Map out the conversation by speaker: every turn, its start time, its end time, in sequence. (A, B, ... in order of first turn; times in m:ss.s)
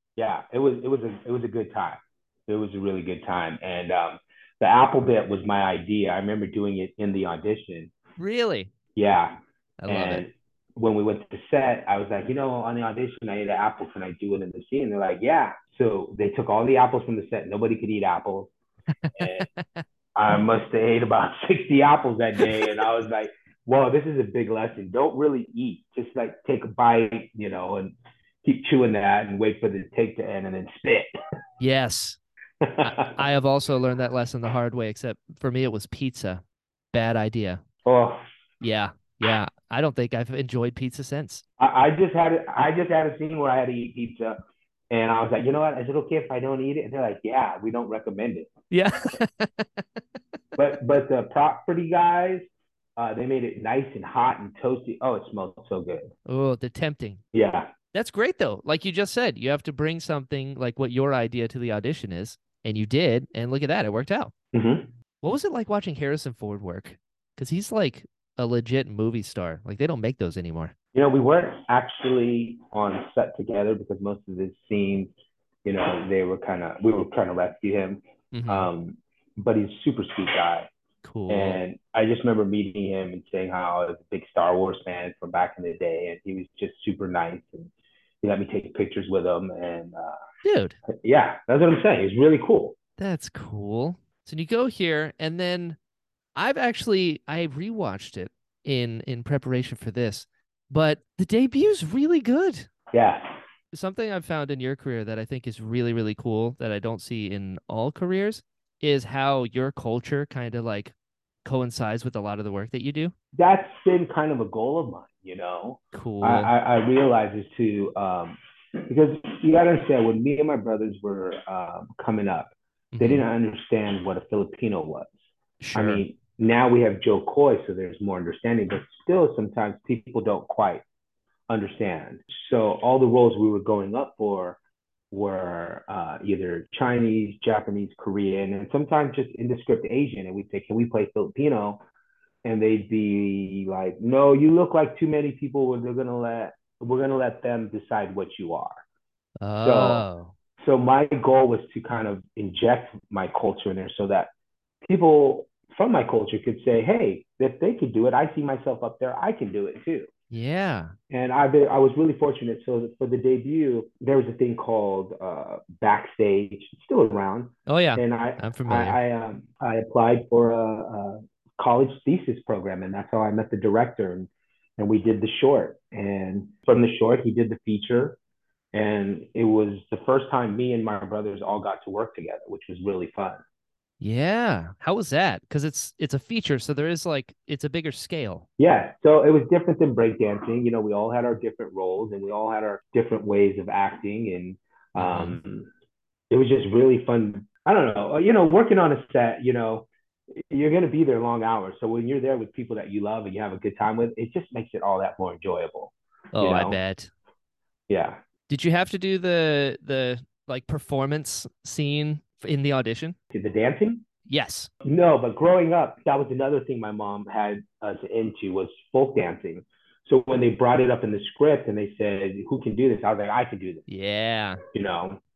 0:00.2-0:07.9 A
0:08.2-0:08.7 B
0:09.0-0:09.4 A
0:09.8-0:10.2 B
0:09.9-0:18.5 A
0:19.1-0:19.8 B
0:19.2-0:19.5 A
0:20.2-0:31.1 A
0:22.4-0:22.7 B
0:31.6-0:32.2 B
0:32.6-0:33.2 A
0:32.8-0:37.6 B
0:37.8-0:38.2 A
0:38.6-0:41.4 B
0:41.6-0:44.4 A
0:44.9-0:48.5 A
0:48.7-0:49.8 B
0:50.6-0:56.1 A
0:56.3-0:57.2 B
0:57.3-0:57.7 A
0:57.9-1:04.3 B
1:04.5-1:04.9 A
1:05.2-1:10.7 B
1:10.9-1:15.1 A
1:15.6-1:20.7 A
1:18.3-1:18.7 B
1:21.0-1:21.6 B
1:21.3-1:30.2 A
1:30.4-1:30.8 B
1:31.0-1:32.8 A
1:33.0-1:35.8 B
1:36.4-1:42.7 B
1:42.9-1:43.3 A
1:43.7-1:53.1 B
1:53.3-2:05.1 A
1:55.9-1:56.5 B
2:02.9-2:03.2 B
2:05.6-2:06.0 B
2:05.7-2:10.8 A
2:11.5-2:14.6 A
2:15.1-2:21.8 A
2:22.4-2:28.8 A
2:29.4-2:30.3 B
2:29.6-2:30.0 A
2:30.6-2:34.3 A
2:34.8-2:40.1 A
2:40.3-2:40.9 B
2:41.1-2:58.2 A
2:47.7-2:49.0 B
2:58.7-3:03.4 A
3:04.0-3:08.5 B
3:08.6-3:15.7 A
3:15.0-3:15.4 B
3:16.3-3:26.8 A
3:26.4-3:27.1 B
3:27.9-3:28.2 A
3:28.5-3:33.2 B
3:33.3-3:34.0 A
3:34.3-3:34.7 B
3:34.8-3:43.8 A
3:43.9-3:44.6 B
3:44.7-3:45.2 A